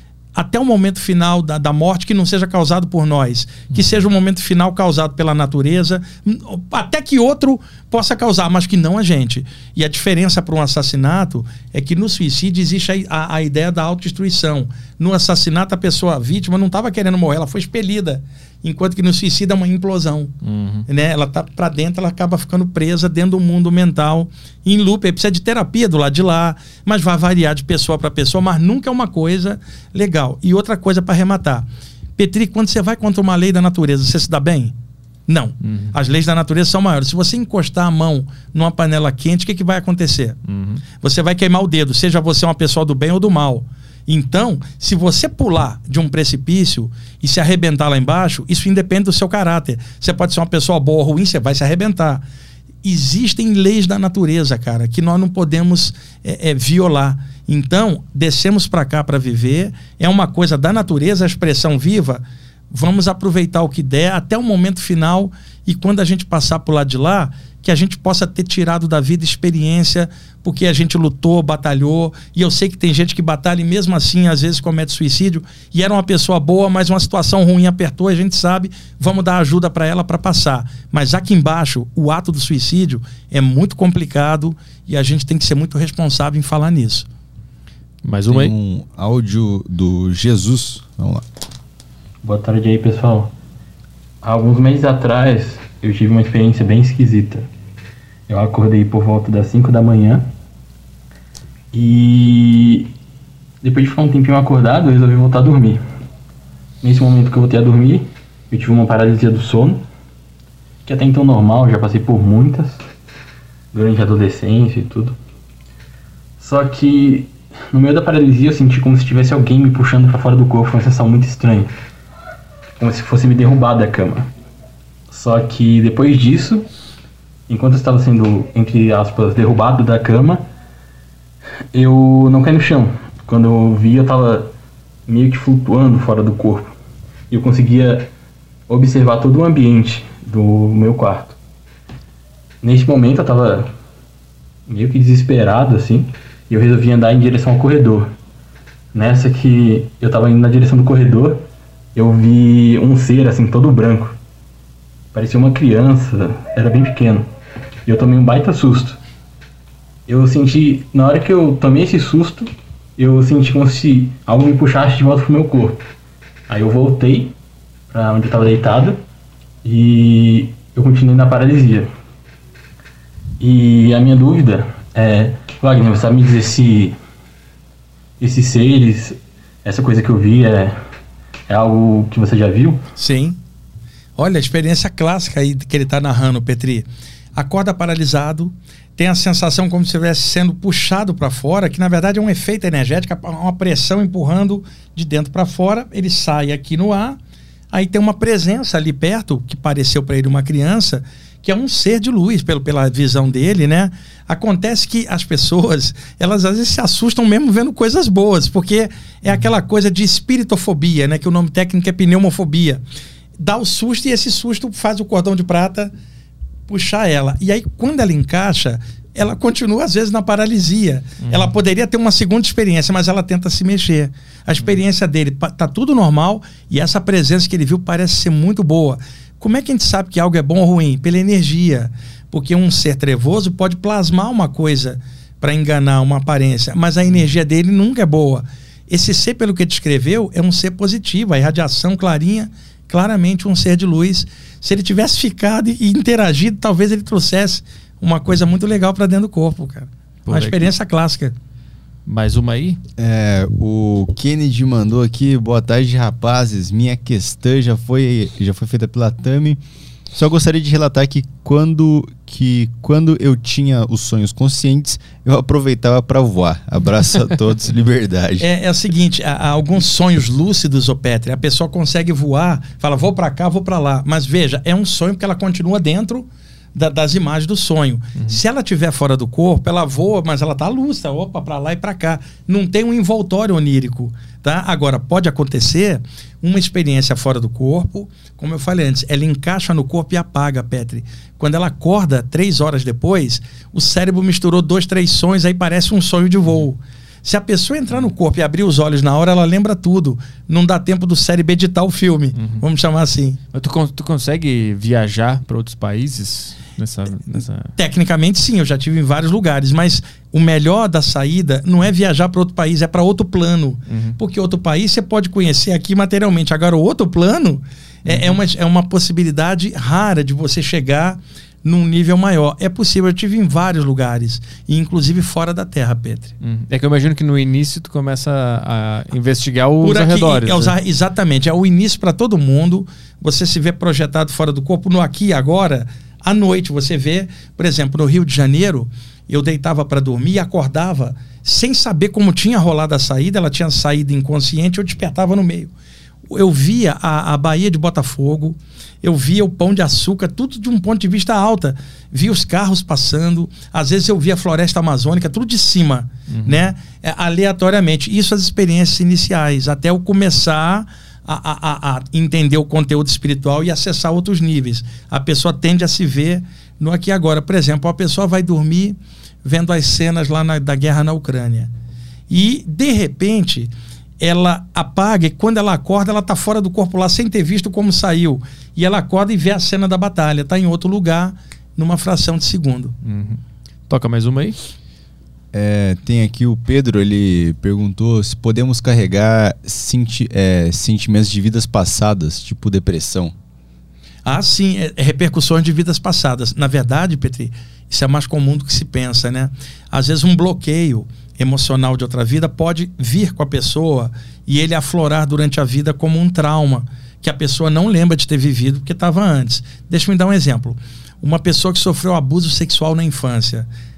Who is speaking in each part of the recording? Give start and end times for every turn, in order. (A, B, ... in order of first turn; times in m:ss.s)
0:00.3-0:20.3 A
0:20.4-0:20.9 B
0:20.9-0:31.6 A
0:32.2-0:34.7 A
0:35.3-0:40.4 A
0:35.6-0:35.9 B
0:40.5-0:40.8 B
0:41.0-0:52.2 A
0:52.8-1:27.1 A
1:28.0-1:28.5 B
1:28.3-1:31.2 C
1:32.2-1:33.3 D
1:34.2-1:37.5 D
1:38.3-1:40.3 D
1:41.7-1:42.9 D
1:43.6-1:45.8 D
1:46.8-1:49.8 D
1:50.8-1:52.8 D
1:53.7-1:55.2 D
1:56.4-2:01.7 D
2:02.8-2:04.3 D
2:05.1-2:06.7 D
2:07.5-2:10.4 D
2:11.7-2:14.5 D
2:15.1-2:16.7 D
2:17.3-2:18.1 D
2:18.7-2:21.4 D
2:22.6-2:23.7 D
2:24.7-2:28.1 D
2:28.9-2:34.2 D
2:35.1-2:37.3 D
2:37.8-2:39.0 D
2:40.0-2:45.8 D
2:46.5-2:47.3 D
2:47.9-2:49.0 D
2:49.6-2:51.9 D
2:53.4-2:57.0 D
2:58.2-3:00.8 D
3:01.5-3:02.8 D
3:03.0-3:03.4 A
3:04.2-3:17.2 A
3:17.7-3:32.8 A
3:33.4-3:35.9 A
3:36.7-4:11.3 A
3:41.2-3:41.5 B
4:10.2-4:10.7 B
4:12.1-4:12.8 B
4:13.0-4:19.6 C
4:20.1-4:28.5 C
4:28.4-5:03.4 A
5:02.4-5:02.6 B
5:03.5-5:07.7 B
5:07.8-5:26.3 A
5:13.9-5:14.2 B
5:18.0-5:18.4 B
5:26.4-5:30.7 B
5:29.8-5:45.7 A
5:46.3-6:11.7 A
5:56.3-5:56.6 B
6:12.3-6:22.9 A
6:23.0-6:24.6 B
6:25.5-6:33.3 C
6:34.2-6:53.7 A